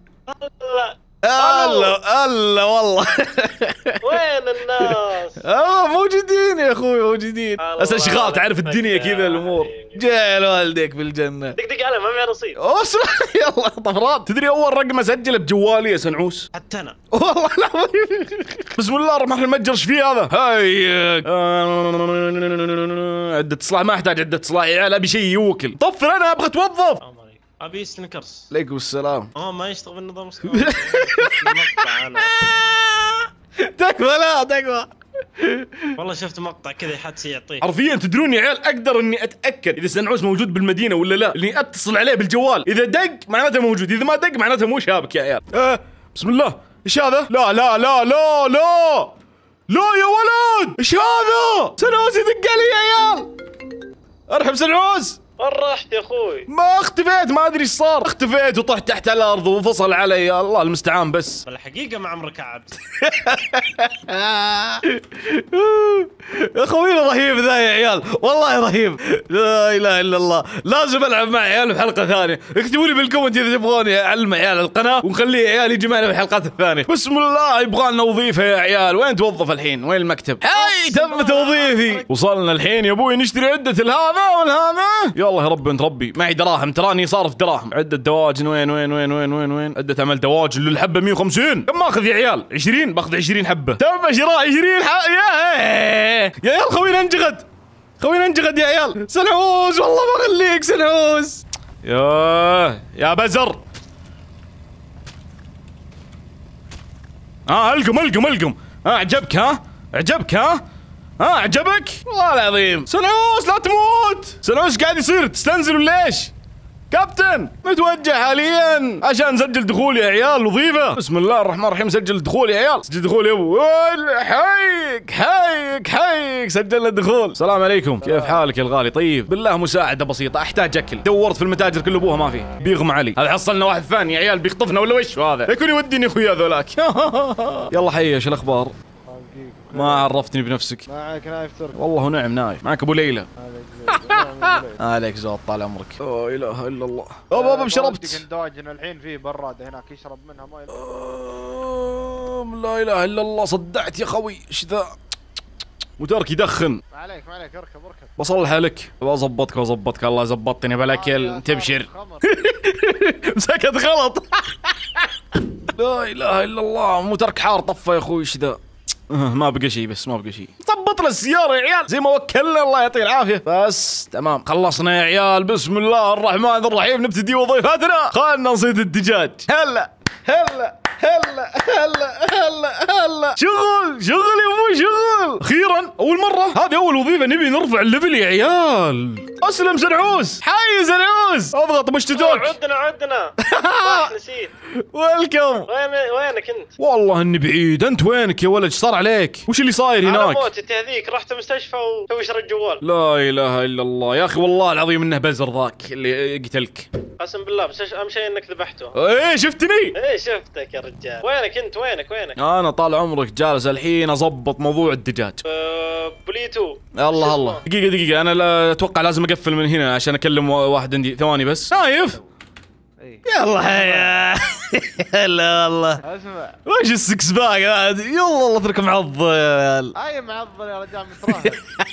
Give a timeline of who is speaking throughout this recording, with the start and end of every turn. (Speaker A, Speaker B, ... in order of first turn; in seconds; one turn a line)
Speaker A: 0.3-2.0
Speaker B: 1.2-4.0
Speaker A: 4.0-5.4
Speaker B: 4.8-11.5
Speaker A: 7.6-10.1
Speaker A: 11.6-12.6
Speaker B: 12.6-16.5
Speaker A: 16.5-17.0
Speaker B: 17.1-27.0
Speaker A: 27.0-28.4
Speaker B: 28.5-29.3
Speaker A: 29.4-32.3
Speaker B: 30.4-34.9
Speaker B: 35.4-35.8
Speaker A: 36.0-37.6
Speaker B: 37.6-49.1
Speaker B: 49.7-53.3
Speaker B: 54.3-55.2
Speaker A: 55.4-56.5
Speaker B: 56.5-61.4
Speaker A: 61.5-62.8
Speaker B: 62.9-97.4
Speaker A: 80.5-82.0
Speaker B: 98.0-103.6
Speaker B: 107.5-110.6
Speaker B: 111.2-116.3
Speaker B: 116.9-138.7
Speaker C: 139.1-140.1
Speaker B: 139.7-140.8
Speaker C: 140.9-141.8
Speaker B: 141.7-143.3
Speaker C: 143.4-144.8
Speaker B: 143.9-148.2
Speaker C: 147.3-150.8
Speaker B: 150.7-154.9
Speaker B: 156.0-156.8
Speaker C: 156.9-158.2
Speaker B: 158.2-165.1
Speaker C: 160.9-162.3
Speaker B: 165.6-192.5
Speaker A: 192.1-194.5
Speaker B: 193.4-194.1
Speaker B: 194.7-195.7
Speaker A: 195.7-196.7
Speaker B: 196.8-200.5
Speaker A: 200.0-202.8
Speaker B: 202.8-206.9
Speaker A: 207.2-208.9
Speaker B: 208.9-209.9
Speaker A: 209.9-212.4
Speaker B: 212.4-215.4
Speaker A: 215.4-217.6
Speaker B: 216.9-222.2
Speaker C: 221.7-222.2
Speaker C: 223.0-224.1
Speaker B: 223.3-226.0
Speaker C: 226.0-226.6
Speaker B: 226.7-229.9
Speaker C: 229.9-231.6